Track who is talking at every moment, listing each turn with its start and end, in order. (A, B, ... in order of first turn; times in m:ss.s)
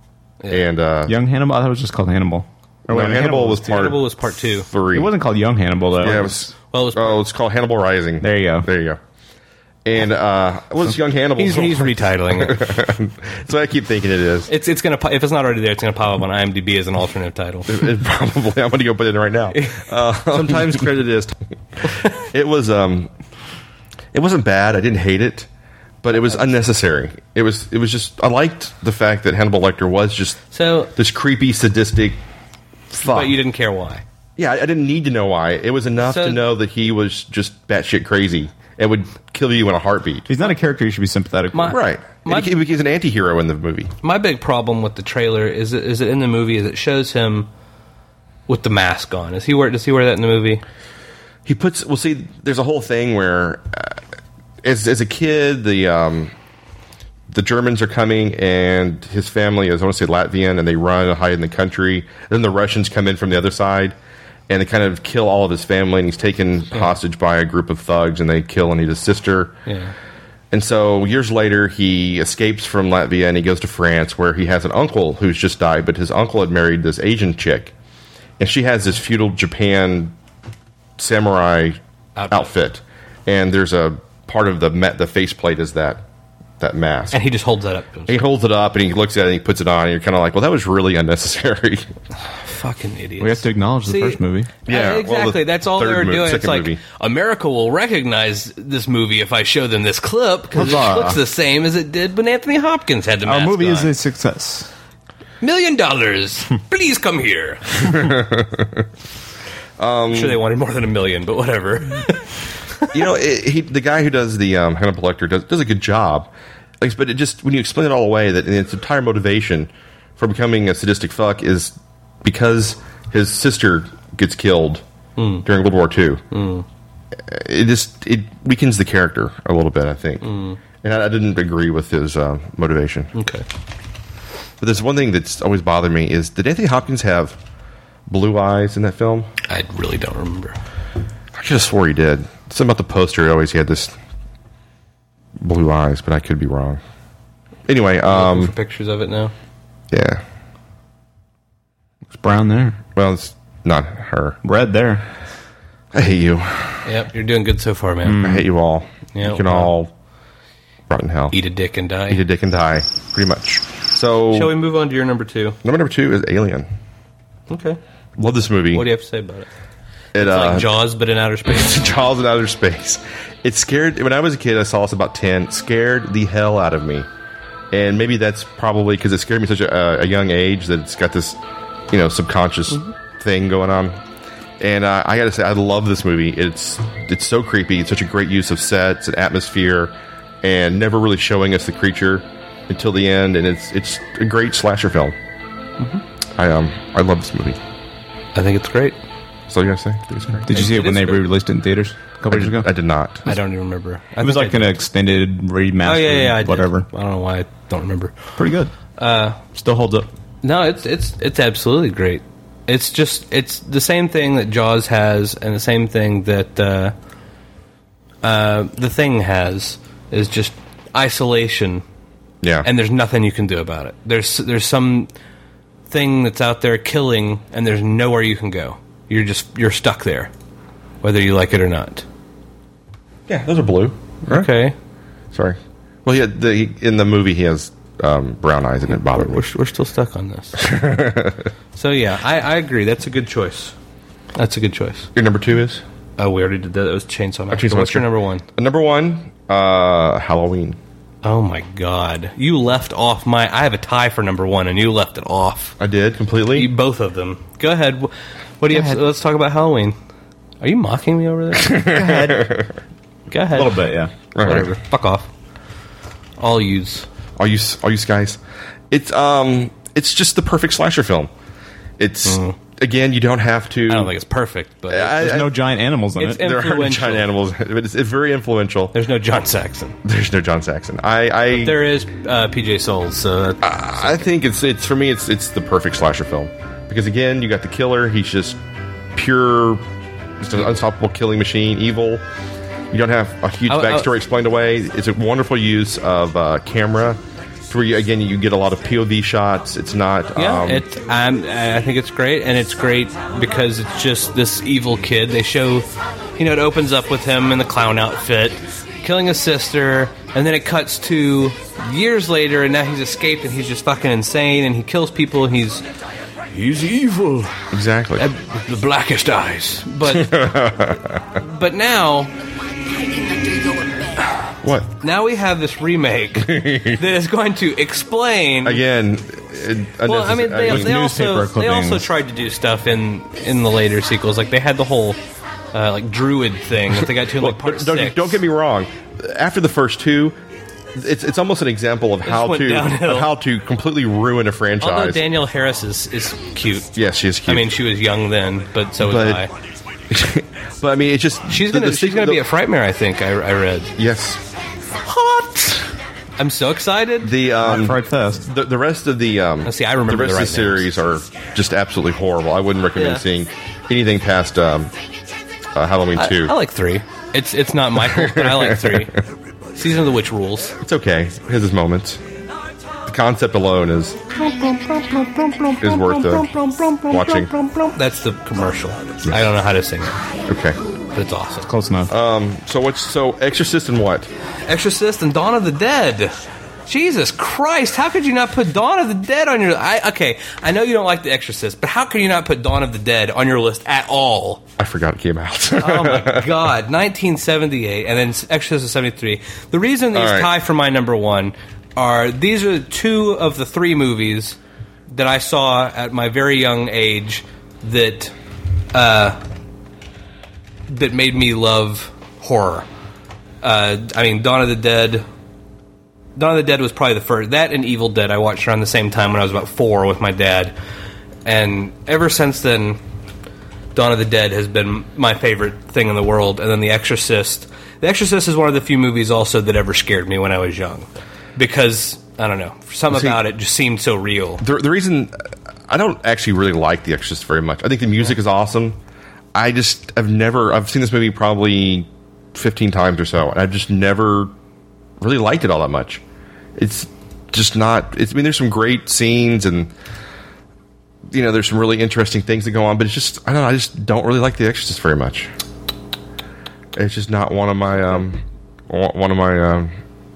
0:00.4-0:00.7 A
0:00.5-0:01.2 B
0:01.1-0:03.8 C
0:02.9-0:05.1 B
0:03.5-0:04.7 A
0:04.9-0:06.5 C
0:06.0-0:09.0 B
0:06.1-0:07.2 A
0:08.2-0:08.7 C
0:09.8-0:14.5 B
0:11.4-0:12.6 A
0:14.5-0:17.7 A
0:17.7-0:23.1 B
0:20.3-0:20.9 A
0:24.1-0:25.5 B
0:26.0-0:30.4 B
0:30.5-0:30.9 A
0:31.0-0:32.2 B
0:32.9-0:33.3 B
0:33.0-0:34.0 A
0:34.4-0:40.3 B
0:36.0-0:36.5 A
0:40.3-0:41.8 C
0:41.5-0:42.5 A
0:41.7-0:43.9 B
0:44.0-0:47.5 A
0:48.5-0:50.6 A
0:51.5-0:54.0 B
0:54.6-0:56.3 B
0:57.3-1:04.0 B
1:04.5-1:09.6 B
1:09.7-1:09.9 A
1:10.5-1:17.7 B
1:18.4-1:20.2 B
1:21.0-1:21.8 B
1:22.2-1:22.5 A
1:22.3-1:26.0 B
1:26.6-1:27.2 B
1:27.1-1:28.2 A
1:28.1-1:31.9 B
1:32.4-1:43.9 A
1:33.2-1:34.5 C
1:34.7-1:36.8 B
1:40.5-1:41.2 C
1:43.2-1:44.7 C
1:45.4-1:48.0 A
1:47.9-1:48.8 B
1:49.8-1:50.4 B
1:50.1-1:52.3 A
1:52.9-1:56.3 B
1:56.8-2:04.8 B
2:05.2-2:05.5 A
2:05.4-2:06.2 B
2:06.3-2:06.6 A
2:07.3-2:13.1 B
2:10.2-2:10.6 A
2:13.2-2:13.4 A
2:14.6-2:17.4 B
2:18.1-2:19.3 B
2:19.5-2:20.6 A
2:21.4-2:23.9 B
2:25.4-2:26.8 B
2:27.7-2:28.5 B
2:28.1-2:29.3 A
2:29.9-2:30.2 B
2:32.1-2:32.8 C
2:33.0-2:34.4 B
2:34.4-2:35.0 C
2:35.9-2:36.8 B
2:36.8-2:38.2 A
2:38.0-2:38.5 C
2:38.2-2:39.9 B
2:39.1-2:39.7 A
2:40.9-2:41.4 B
2:41.3-2:42.2 A
2:42.1-2:44.6 B
2:44.3-2:45.6 A
2:45.6-2:46.7 B
2:47.5-2:47.8 A
2:48.2-2:48.9 B
2:48.7-2:49.5 A
2:50.2-2:50.7 B
2:50.2-2:51.9 A
2:51.7-2:57.1 B
2:57.7-3:01.4 B
3:01.9-3:04.0 B
3:04.6-3:15.2 B
3:16.4-3:17.6 B
3:18.4-3:19.0 A
3:19.5-3:20.6 B
3:20.4-3:22.7 C
3:20.5-3:21.2 A
3:22.3-3:23.2 B
3:23.3-3:24.7 A
3:24.2-3:26.9 C
3:25.8-3:28.3 A
3:28.4-3:28.7 C
3:29.0-3:29.4 A
3:29.5-3:30.1 C
3:30.4-3:36.9 A
3:38.2-3:41.8 A
3:42.4-3:42.7 B
3:42.6-3:45.1 A
3:45.9-3:50.3 A
3:51.0-3:52.0 A
3:53.3-3:54.5 B
3:54.3-3:54.8 A
3:55.3-3:59.5 B
3:58.9-4:00.6 A
4:00.6-4:01.5 B
4:01.8-4:03.8 A
4:04.4-4:05.1 A
4:05.2-4:05.8 B
4:06.2-4:08.4 A
4:07.5-4:10.8 B
4:11.2-4:15.8 A
4:15.8-4:16.7 B
4:16.5-4:20.0 A
4:20.6-4:21.8 A
4:21.7-4:22.7 B
4:21.8-4:22.5 C
4:23.3-4:23.8 A
4:23.5-4:24.1 C
4:24.4-4:24.7 B
4:24.4-4:25.3 A
4:26.4-4:27.1 A
4:27.4-4:28.4 B
4:28.9-4:31.3 B
4:32.0-4:34.1 B
4:32.3-4:32.6 A
4:33.9-4:35.2 A
4:34.9-4:35.5 B
4:35.1-4:36.4 C
4:36.2-4:37.3 A
4:36.3-4:39.0 B
4:38.9-4:40.0 A
4:40.0-4:41.8 B
4:41.5-4:44.3 A
4:43.6-4:48.6 B
4:49.2-4:49.8 B
4:50.4-4:52.2 B
4:52.9-5:00.8 B
4:53.7-4:54.1 A
5:00.4-5:15.8 A
5:16.6-5:17.5 A
5:17.7-5:18.2 B
5:18.2-5:20.3 A
5:20.1-5:21.2 B
5:21.4-5:22.3 A
5:24.6-5:24.9 B
5:25.0-5:28.8 A
5:26.5-5:27.0 B
5:28.6-5:31.0 B
5:30.1-5:35.2 A
5:30.7-5:32.1 C
5:35.7-5:38.4 A
5:37.4-5:40.4 B
5:41.0-5:45.2 B
5:42.2-5:43.3 A
5:44.8-5:46.9 A
5:46.9-5:47.8 B
5:47.5-5:49.5 A
5:49.0-5:49.5 B
5:50.1-5:52.4 B
5:51.5-5:53.9 A
5:54.0-5:54.4 B
5:55.1-5:55.8 A
5:56.4-5:57.3 A
5:57.2-6:04.9 B
5:57.6-5:58.5 C
5:59.6-6:00.9 A
6:03.0-6:03.2 A
6:05.8-6:06.6 B
6:06.2-6:09.2 A
6:08.0-6:09.1 B
6:09.8-6:10.8 A
6:10.8-6:12.2 B
6:13.1-6:14.2 B
6:14.3-6:20.1 A
6:15.8-6:16.5 B
6:17.1-6:17.5 B
6:20.5-6:20.8 B
6:21.1-6:21.7 A
6:21.6-6:22.1 C
6:22.1-6:24.3 B
6:24.7-6:26.4 A
6:26.9-6:34.6 A
6:34.8-6:36.5 B
6:35.8-6:44.6 A
6:40.1-6:40.5 B
6:45.1-6:48.3 A
6:48.9-6:49.4 A
6:50.9-6:52.9 A
6:53.6-6:55.2 A
6:56.4-7:00.7 A
7:01.4-7:03.0 A
7:04.0-7:14.6 A
7:13.1-7:13.4 B
7:14.6-7:15.4 B
7:15.9-7:19.0 B
7:19.6-7:24.5 B
7:25.2-7:26.2 B
7:26.8-7:29.9 B
7:31.3-7:35.5 B
7:37.0-7:39.9 B